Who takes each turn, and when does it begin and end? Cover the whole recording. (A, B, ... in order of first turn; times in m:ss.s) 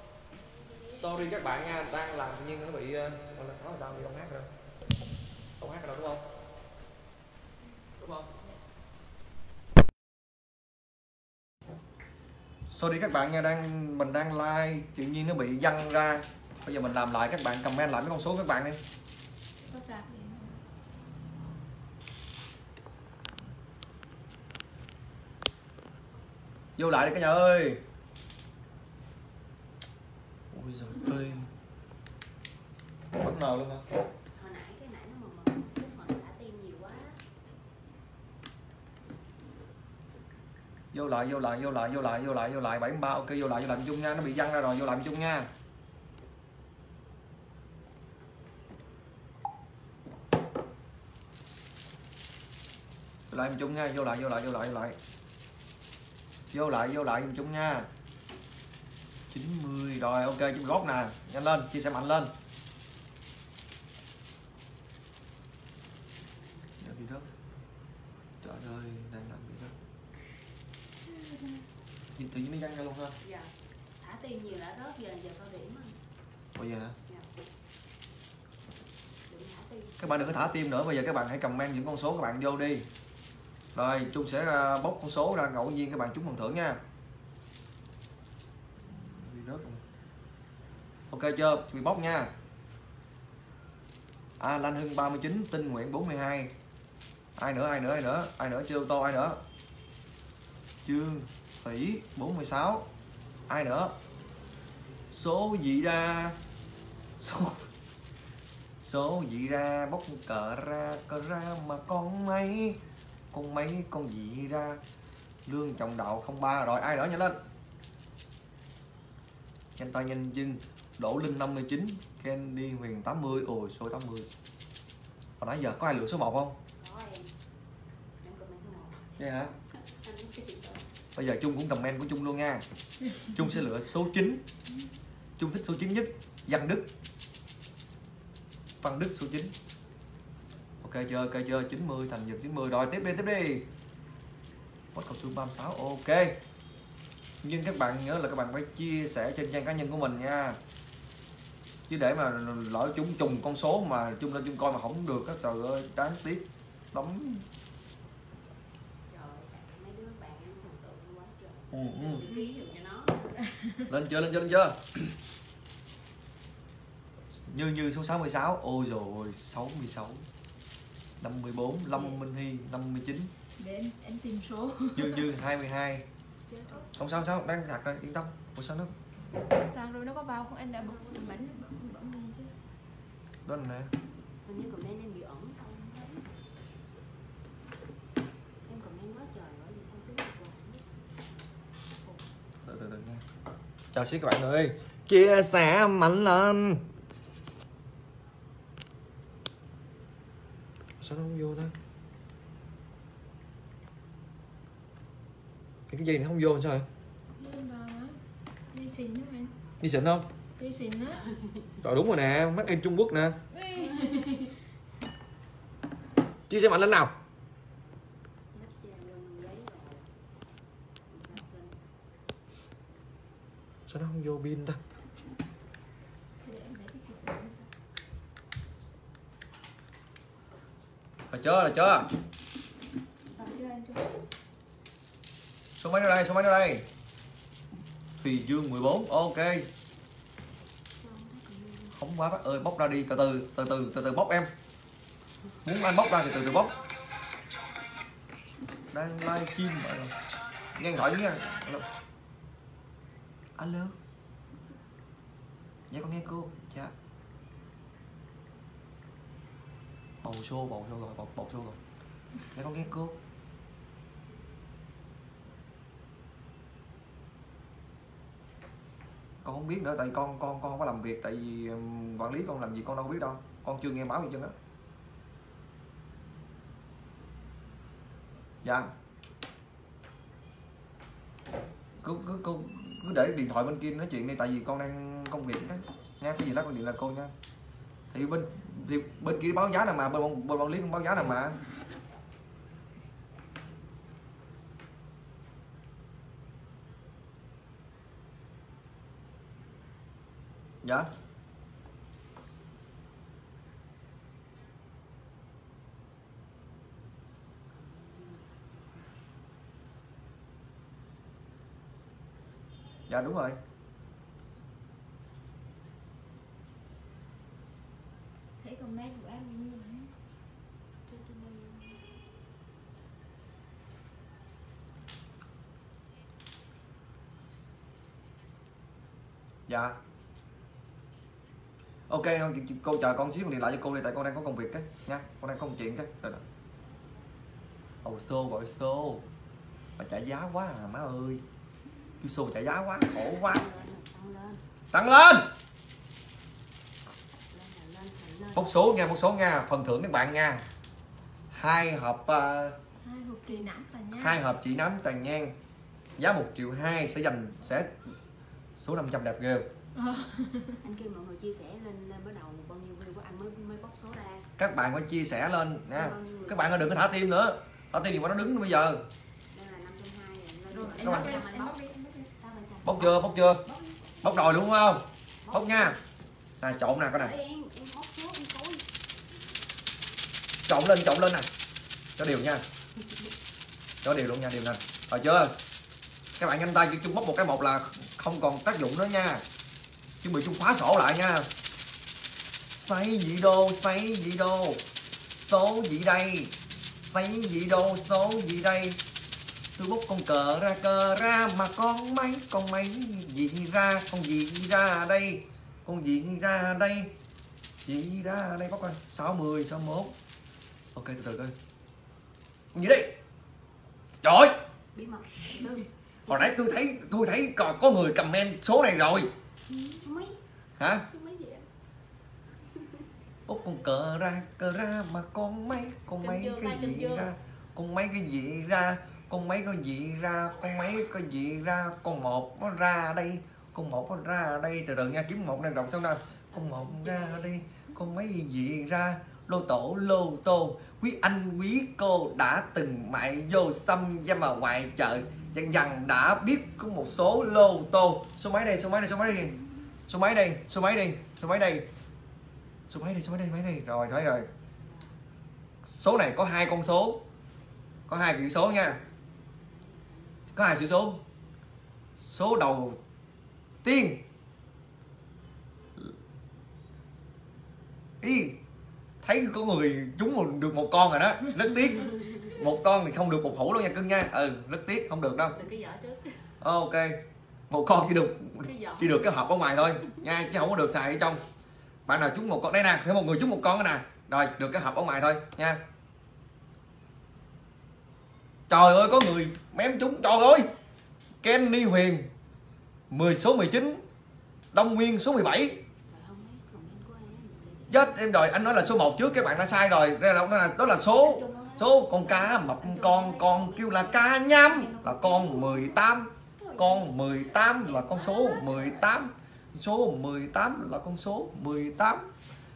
0:00.9-0:04.5 A
0:05.6-0:06.2 A
0:08.0-0:08.3 A
0:12.7-0:18.8 A
0:19.6-0:20.6 B
0:26.8-0:27.8 A
0:30.5-0:31.5 A
0:33.1-0:33.8 A
0:34.3-0:37.2 C
0:40.9-0:45.5 A
0:53.3-0:55.0 A
0:56.5-0:57.9 A
0:59.3-1:02.3 A
1:06.2-1:06.7 C
1:06.8-1:07.3 A
1:08.4-1:09.7 A
1:11.1-1:11.6 B
1:12.1-1:13.2 A
1:13.2-1:16.0 C
1:16.6-1:17.0 A
1:19.3-1:20.5 C
1:20.0-1:22.9 A
1:23.8-1:26.8 A
1:28.9-1:29.8 A
1:31.1-1:32.3 A
1:34.4-1:36.5 A
1:37.4-1:39.4 A
1:40.8-1:42.9 A
1:43.5-1:43.9 A
1:45.1-1:46.4 A
1:47.2-1:47.6 A
1:48.8-1:52.8 A
1:53.3-1:54.8 A
1:55.4-1:57.4 A
1:59.8-2:04.3 A
2:05.4-2:06.6 A
2:06.8-2:07.3 C
2:08.2-2:10.8 C
2:09.2-2:09.5 A
2:11.2-2:12.6 A
2:13.3-2:14.4 A
2:15.4-2:16.9 A
2:18.8-2:19.5 A
2:20.8-2:23.7 A
2:24.9-2:26.4 A
2:27.4-2:30.6 A
2:31.9-2:37.4 A
2:39.1-2:43.4 C
2:41.7-2:42.2 A
2:43.6-2:43.8 B
2:43.9-2:45.1 A
2:47.3-2:50.2 A
2:51.2-2:53.3 A
2:53.6-2:55.3 B
2:54.9-2:56.1 A
2:56.5-2:57.2 C
2:56.9-2:58.9 A
2:59.5-3:02.5 B
3:00.8-3:01.5 C
3:03.4-3:03.9 A
3:04.4-3:06.3 C
3:08.7-3:10.8 C
3:12.6-3:13.2 A
3:13.9-3:16.8 A
3:21.0-3:21.7 A
3:25.9-3:26.9 A
3:27.4-3:28.2 B
3:28.7-3:29.5 B
3:29.8-3:30.3 A
3:30.6-3:31.2 B
3:31.1-3:31.9 C
3:31.8-3:33.4 A
3:33.5-3:34.4 B
3:33.8-3:34.5 C
3:36.5-3:37.1 A
3:38.5-3:40.1 C
3:41.1-3:41.8 C
3:43.9-3:44.8 A
3:46.4-3:47.7 B
3:51.3-3:52.1 A
3:53.3-3:54.1 B
3:55.8-3:56.8 A
3:58.2-3:59.7 A
4:01.0-4:02.0 C
4:02.0-4:04.5 A
4:05.6-4:06.8 A
4:08.9-4:10.2 A
4:10.8-4:11.8 A
4:13.6-4:13.9 A
4:15.9-4:16.9 A
4:20.2-4:21.8 A
4:22.5-4:23.2 A
4:29.4-4:34.5 A
4:38.6-4:38.9 A
4:42.0-4:47.3 A
4:48.1-4:51.6 A
5:07.7-5:09.1 C
5:13.1-5:13.6 A
5:18.6-5:20.1 B
5:21.1-5:22.2 C
5:29.7-5:30.0 A
5:32.1-5:36.4 A
5:38.0-5:39.3 A
5:40.0-5:41.4 A
5:42.2-5:43.6 A
5:43.0-5:44.6 C
5:44.9-5:45.5 A
5:47.5-5:48.9 C
5:48.6-5:50.6 A
5:51.5-5:52.8 A
5:53.0-5:54.4 B
5:54.2-5:55.5 A
5:56.2-5:58.0 A
5:58.8-5:59.7 A
6:00.0-6:00.8 B
6:00.8-6:04.5 C
6:04.6-6:09.0 A
6:05.9-6:06.9 C
6:09.5-6:11.8 C
6:10.7-6:12.3 B
6:11.0-6:11.4 A
6:12.3-6:14.6 C
6:12.8-6:13.6 A
6:14.2-6:16.0 A
6:15.4-6:16.0 C
6:16.6-6:17.3 A
6:17.1-6:18.9 C
6:20.7-6:21.5 A
6:22.2-6:22.6 A
6:24.0-6:25.5 A
6:26.4-6:29.4 A
6:30.2-6:31.5 A
6:32.7-6:34.8 A
6:35.4-6:36.5 A
6:37.0-6:39.0 A
6:39.8-6:47.1 A
6:47.8-6:50.1 A
6:50.9-6:51.6 A
6:52.7-6:53.1 A
6:54.2-6:54.5 A
6:54.9-6:56.5 C
6:56.3-6:59.3 A
7:00.0-7:00.4 C
7:00.8-7:01.1 A
7:01.1-7:01.7 C
7:02.8-7:03.0 C
7:03.5-7:31.9 A
7:06.2-7:07.3 C
7:16.5-7:17.6 C
7:32.9-7:34.5 A
7:34.8-7:35.1 C
7:35.8-7:37.2 A
7:38.1-7:39.0 A
7:39.4-7:40.6 C
7:40.5-7:41.2 A
7:42.2-7:43.0 A
7:43.8-7:44.2 A
7:48.2-7:48.6 A
7:49.2-7:55.6 A
7:52.1-7:52.5 C
7:55.5-7:56.5 C
7:56.6-8:01.4 A
7:58.6-8:00.2 C
8:02.1-8:05.8 A
8:08.7-8:10.7 A
8:11.4-8:12.3 A
8:13.1-8:14.0 A
8:14.7-8:15.8 A
8:16.1-8:18.1 C
8:17.9-8:32.3 A
8:21.0-8:26.1 C
8:26.6-8:29.0 C
8:28.1-8:28.9 B